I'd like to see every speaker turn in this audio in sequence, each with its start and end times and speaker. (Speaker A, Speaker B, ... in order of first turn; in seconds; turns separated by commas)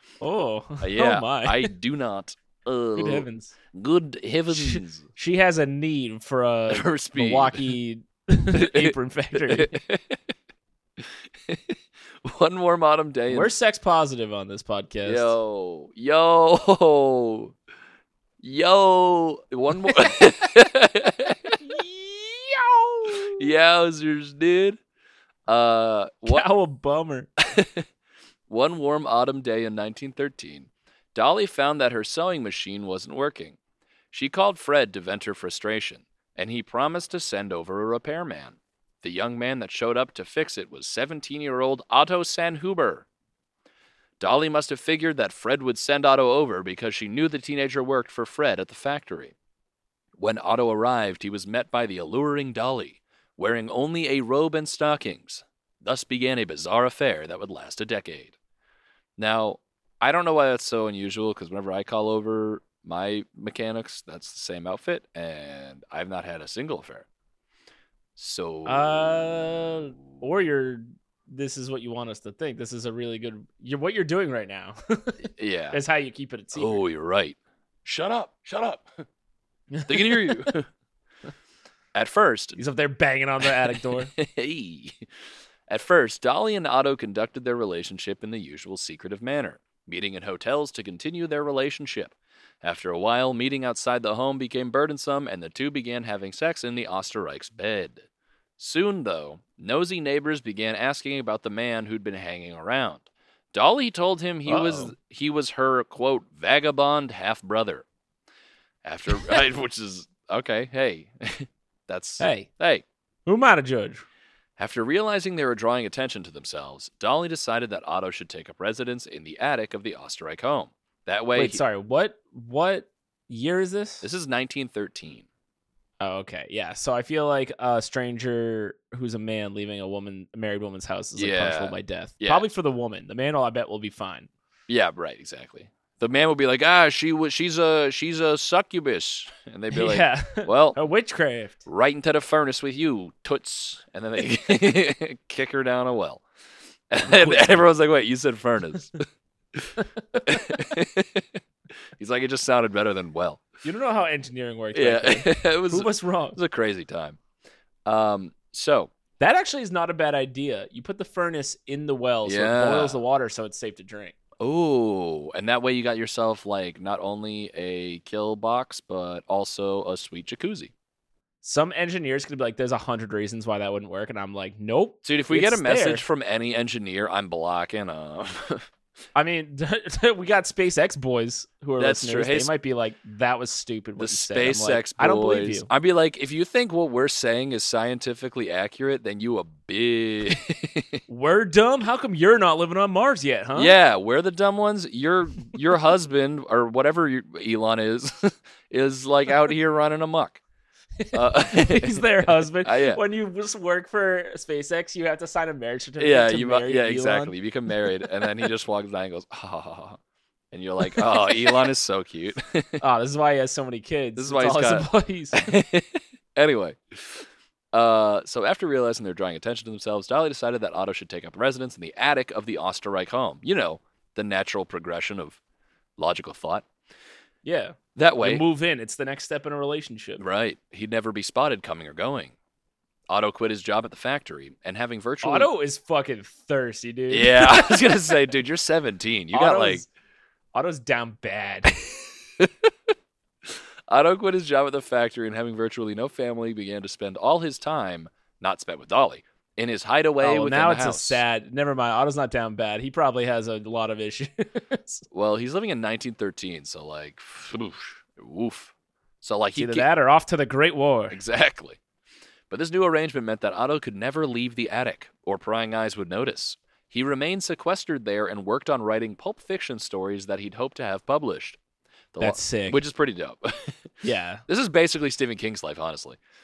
Speaker A: 0.2-1.7, Speaker B: 0.8-5.1, Speaker A: 2.9-3.5, Speaker A: 4.5-9.8, Speaker B: 6.7-7.7, Speaker B: 8.5-10.2, Speaker B: 11.0-13.5, Speaker A: 13.3-15.3, Speaker B: 15.0-17.5, Speaker B: 18.4-21.6, Speaker A: 21.6-23.4, Speaker B: 23.1-24.8, Speaker B: 25.5-26.4, Speaker A: 26.2-27.3, Speaker B: 27.4-27.9, Speaker B: 28.5-33.6, Speaker B: 34.1-43.1, Speaker B: 44.2-49.3, Speaker B: 50.2-58.4, Speaker B: 59.2-67.1, Speaker B: 68.2-69.9, Speaker A: 68.7-76.8, Speaker B: 75.4-75.8, Speaker B: 76.5-78.9, Speaker A: 79.7-80.5, Speaker B: 79.9-80.7, Speaker B: 81.9-82.6, Speaker A: 82.5-84.1, Speaker B: 83.5-85.1, Speaker B: 85.7-98.0, Speaker B: 98.6-107.8, Speaker A: 104.5-104.9, Speaker B: 108.8-112.8, Speaker A: 112.2-112.5, Speaker A: 113.2-114.0, Speaker B: 114.6-121.6, Speaker A: 121.3-124.0, Speaker B: 124.0-125.2, Speaker A: 126.0-134.3, Speaker B: 131.2-132.4, Speaker B: 134.7-140.8, Speaker A: 139.7-141.7, Speaker B: 141.7-146.2, Speaker B: 146.9-149.0, Speaker A: 147.0-147.6, Speaker A: 150.0-150.5, Speaker B: 150.2-151.4, Speaker B: 152.0-153.4, Speaker A: 153.6-156.4, Speaker B: 154.7-157.2, Speaker B: 157.8-158.9, Speaker A: 159.2-164.1, Speaker B: 162.2-163.0, Speaker B: 164.4-170.7, Speaker A: 171.4-176.0, Speaker B: 175.0-178.6, Speaker A: 179.1-185.7, Speaker B: 181.8-182.5, Speaker B: 184.0-191.0, Speaker A: 191.1-193.7, Speaker B: 193.5-200.4, Speaker A: 201.0-207.3, Speaker B: 201.1-203.0, Speaker B: 206.0-210.0, Speaker B: 210.5-212.8, Speaker A: 210.8-211.6, Speaker A: 212.8-215.5, Speaker B: 214.2-225.4, Speaker B: 226.0-226.7, Speaker A: 227.4-230.2, Speaker B: 227.9-228.4, Speaker B: 230.2-232.3, Speaker B: 233.1-235.5, Speaker A: 235.2-238.1, Speaker B: 237.1-239.8, Speaker A: 239.3-239.9, Speaker A: 240.5-241.7, Speaker B: 242.4-242.7, Speaker B: 243.5-251.2, Speaker A: 250.2-255.0, Speaker B: 255.1-259.9, Speaker A: 259.6-261.2, Speaker B: 261.1-261.8, Speaker B: 262.5-271.6, Speaker B: 272.1-273.9, Speaker A: 272.2-272.8, Speaker A: 274.0-274.4, Speaker B: 274.5-276.2